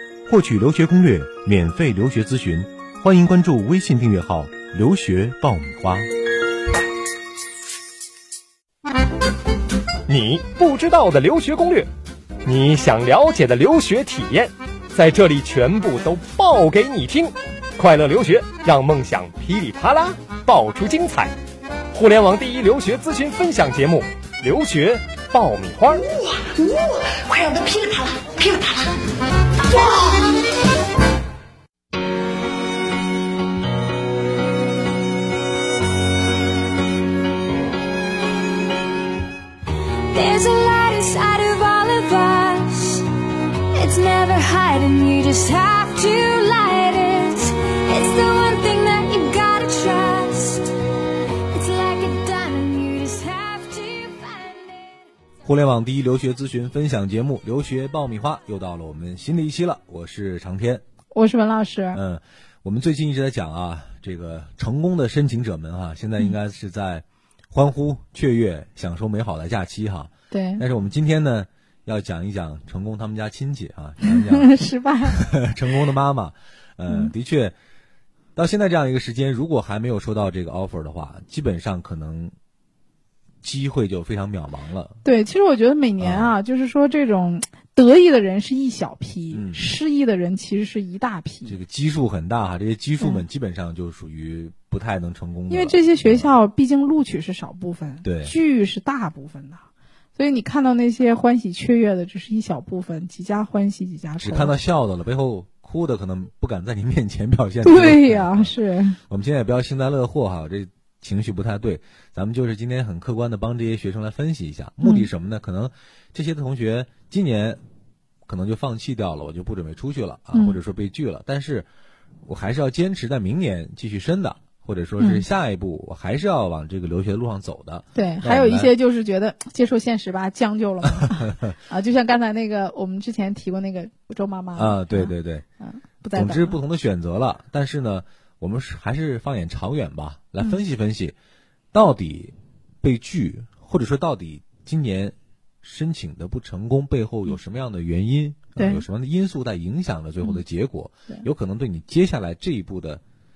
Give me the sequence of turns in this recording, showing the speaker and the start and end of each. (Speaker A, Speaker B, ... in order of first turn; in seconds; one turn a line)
Speaker A: 0.3-6.1
Speaker B: 10.1-11.9
Speaker B: 12.4-21.3
Speaker B: 21.9-26.0
Speaker C: 25.9-28.9
Speaker C: 29.6-30.4
Speaker D: 40.1-43.1
Speaker D: 43.7-50.7
Speaker D: 51.5-55.0
Speaker A: 55.5-60.8
Speaker E: 61.1-62.0
Speaker A: 61.9-74.5
Speaker E: 70.3-70.6
Speaker E: 74.0-75.3
Speaker A: 75.1-77.5
Speaker A: 78.3-82.3
Speaker A: 83.4-85.0
Speaker E: 85.0-91.6
Speaker A: 86.0-86.3
Speaker A: 89.3-89.7
Speaker A: 91.5-96.3
Speaker E: 95.5-99.6
Speaker A: 98.0-98.3
Speaker E: 100.2-104.6
Speaker A: 104.2-108.5
Speaker E: 107.6-109.0
Speaker A: 109.1-117.6
Speaker E: 114.8-115.1
Speaker A: 118.3-121.7
Speaker E: 120.3-120.6
Speaker A: 122.2-128.7
Speaker E: 125.0-125.2
Speaker E: 128.0-136.6
Speaker A: 131.0-131.5
Speaker A: 134.6-135.5
Speaker A: 136.1-141.2
Speaker A: 141.7-153.0
Speaker E: 148.6-148.8